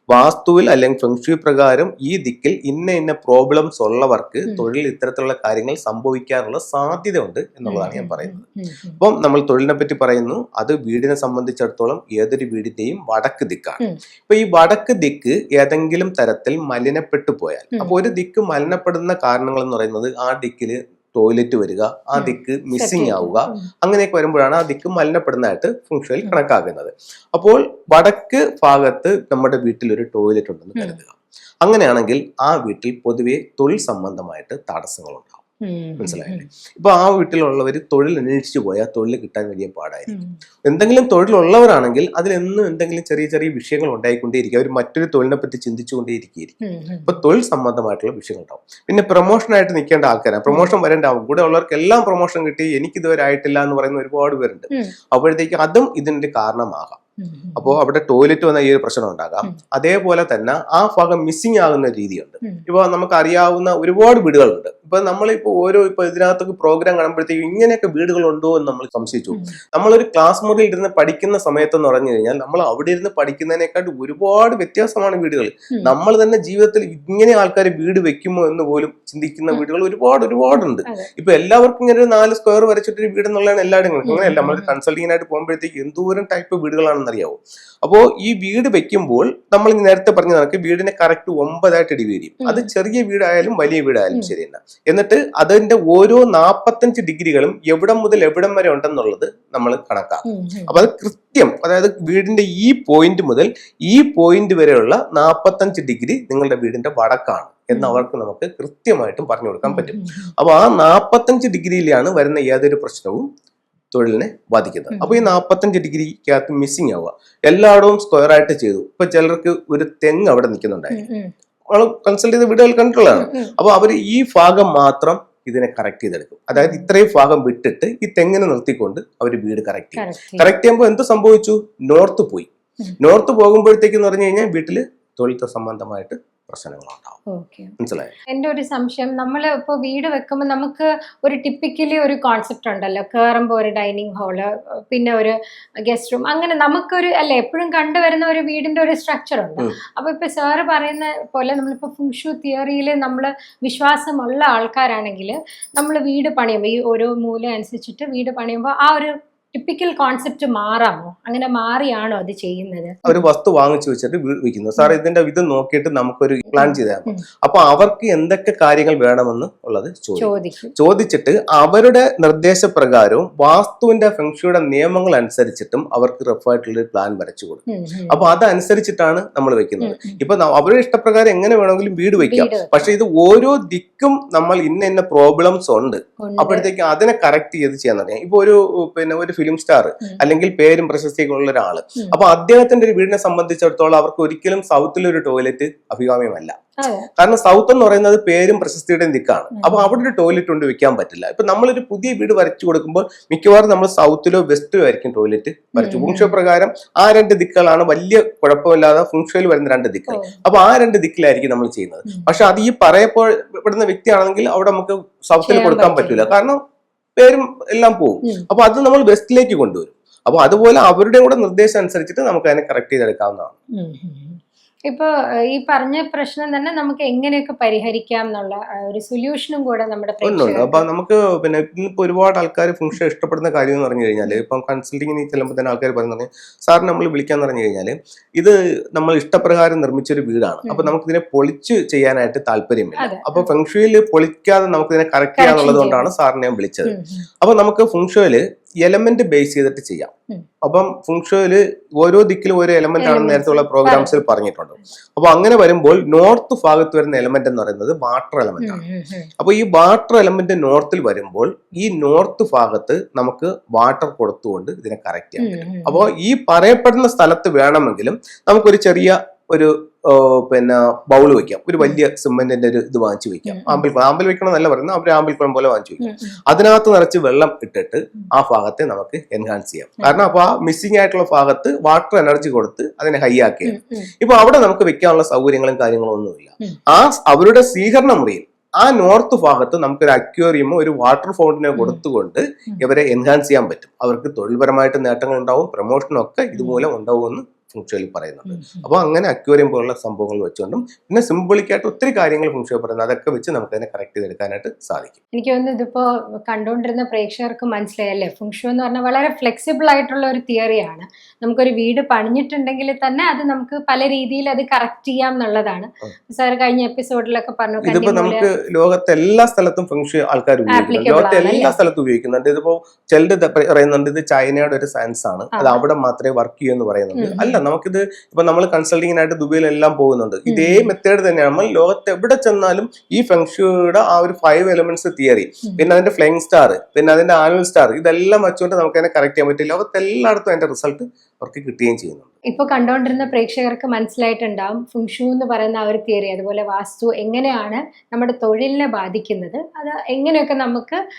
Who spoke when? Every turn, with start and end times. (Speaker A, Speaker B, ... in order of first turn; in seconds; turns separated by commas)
Speaker A: 0.1-8.5, Speaker B: 7.7-9.0, Speaker A: 9.0-35.4, Speaker B: 22.1-23.7, Speaker B: 35.6-36.5, Speaker A: 36.0-57.0, Speaker B: 40.1-40.3, Speaker B: 46.6-47.2, Speaker B: 50.5-50.7, Speaker B: 57.2-57.8, Speaker A: 57.6-113.3, Speaker B: 84.1-84.8, Speaker B: 92.4-92.7, Speaker B: 100.3-100.8, Speaker B: 107.7-108.0, Speaker B: 109.7-110.3, Speaker A: 113.9-121.0, Speaker B: 114.9-115.3, Speaker B: 120.9-121.3, Speaker A: 121.7-132.5, Speaker B: 123.2-123.5, Speaker B: 126.5-126.9, Speaker B: 130.0-130.5, Speaker A: 133.0-137.2, Speaker B: 137.3-137.7, Speaker A: 137.8-138.1, Speaker B: 138.3-163.2, Speaker A: 163.1-196.5, Speaker B: 166.5-167.2, Speaker B: 170.2-170.7, Speaker B: 177.7-178.2, Speaker B: 179.8-180.2, Speaker B: 182.2-182.9, Speaker B: 186.2-186.7, Speaker B: 196.8-197.1, Speaker A: 197.2-216.6, Speaker B: 199.5-199.9, Speaker B: 205.8-206.3, Speaker B: 210.1-210.4, Speaker B: 212.1-212.3, Speaker B: 215.4-216.3, Speaker A: 217.2-223.6, Speaker B: 223.8-230.8, Speaker A: 230.2-258.8, Speaker B: 240.7-240.9, Speaker B: 243.0-243.5, Speaker B: 245.4-246.1, Speaker B: 246.9-247.3, Speaker B: 253.0-254.2, Speaker B: 258.6-259.3, Speaker A: 259.4-305.2, Speaker B: 265.4-266.1, Speaker B: 273.5-273.9, Speaker B: 276.0-276.4, Speaker B: 283.7-284.1, Speaker B: 291.8-292.0, Speaker B: 296.6-296.9, Speaker B: 298.5-298.9, Speaker B: 305.3-318.5, Speaker A: 317.8-342.4, Speaker B: 320.7-321.8, Speaker B: 325.6-325.8, Speaker B: 327.2-327.6, Speaker B: 330.5-330.9, Speaker B: 342.5-351.0